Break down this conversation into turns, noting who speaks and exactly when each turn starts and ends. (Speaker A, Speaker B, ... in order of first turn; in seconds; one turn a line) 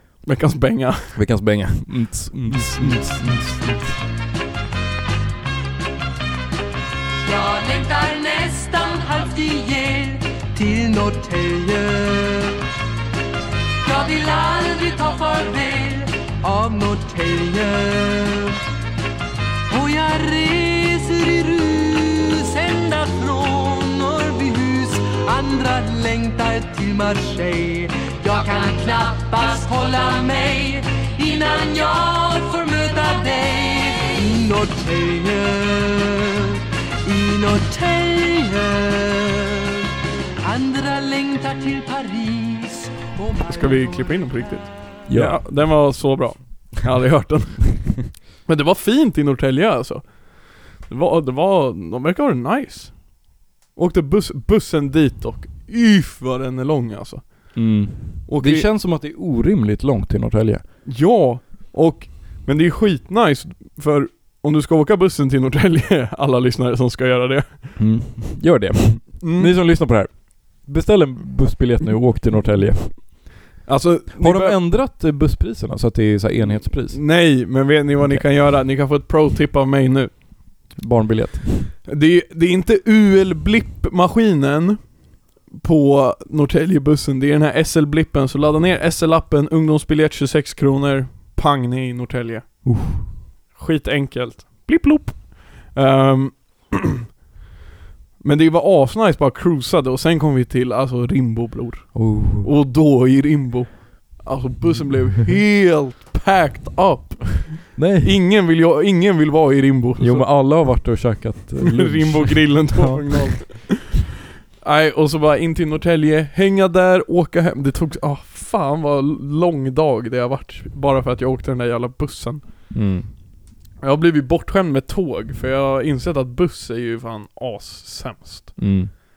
Speaker A: 0.2-1.2
Speaker B: 1.1-4.0
Speaker A: 2.5-3.2
Speaker C: 7.2-12.6
Speaker C: 13.8-18.6
Speaker C: 19.7-39.9
Speaker C: 40.4-44.3
Speaker A: 43.5-58.7
Speaker B: 45.1-45.4
Speaker B: 57.5-60.6
Speaker A: 60.8-67.8
Speaker B: 67.8-73.3
Speaker A: 69.2-69.5
Speaker A: 73.6-74.6
Speaker B: 74.2-77.3
Speaker A: 76.7-80.1
Speaker B: 78.0-78.3
Speaker B: 80.7-81.7
Speaker A: 81.8-96.8
Speaker B: 92.6-93.1
Speaker A: 98.2-110.4
Speaker B: 101.9-102.5
Speaker B: 107.7-108.2
Speaker B: 110.0-113.6
Speaker A: 111.6-113.9
Speaker A: 114.6-122.7
Speaker B: 122.7-123.1
Speaker A: 123.8-128.8
Speaker B: 128.6-128.9